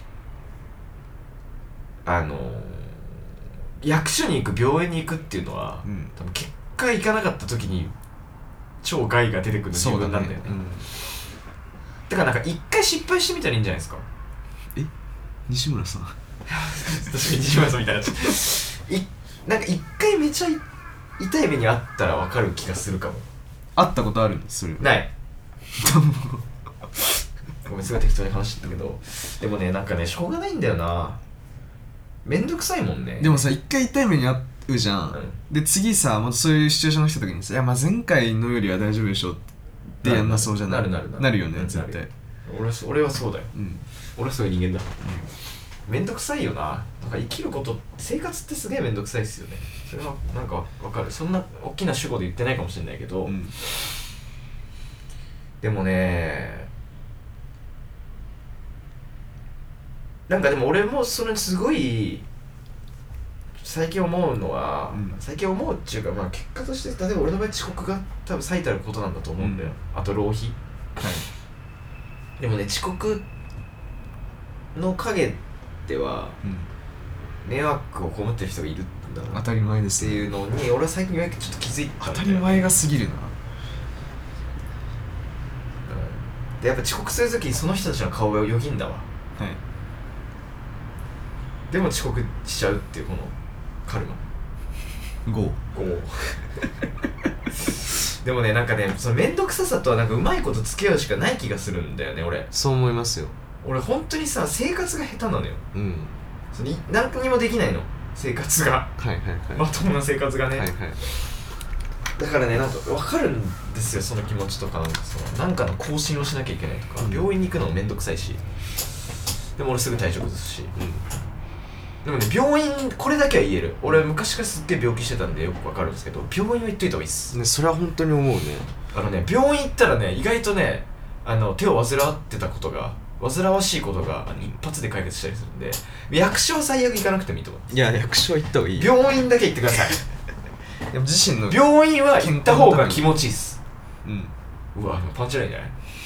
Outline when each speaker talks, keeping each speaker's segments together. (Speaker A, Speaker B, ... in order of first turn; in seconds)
Speaker A: 2.0-3.2, 3.8-7.9, 8.8-10.5, 12.1-14.0, 16.4-20.6, 21.2-23.2, 24.8-25.1, 27.6-31.2, 32.2-33.5, 35.1-35.4, 40.0-43.5, 44.1-44.9, 45.9-53.4, 55.6-56.7, 60.3-62.2, 63.6-70.5, 72.4-73.2, 74.7-76.4, 77.4-79.4, 80.0-82.7, 85.8-89.0, 91.7-94.2, 95.7-96.4, 97.6-102.5, 103.6-105.6, 106.5-108.9, 109.5-110.7, 112.2-118.4, 119.5-120.7, 122.0-127.3, 128.9-137.7, 138.8-140.0, 141.5-143.6, 144.7-145.7
Speaker B: 5.8-6.1, 9.7-10.9, 15.5-16.1, 23.8-24.9, 25.7-26.4, 33.2-39.4, 40.0-42.1, 43.5-43.8, 45.0-45.3, 53.3-53.5, 69.4-69.7, 71.0-71.3, 76.4-76.7, 79.3-80.3, 82.0-83.3, 95.2-95.6, 102.5-103.3, 105.7-106.2, 109.0-109.6, 110.5-111.0, 120.7-121.0, 127.3-128.7, 137.7-138.9, 140.9-143.1, 144.0-144.3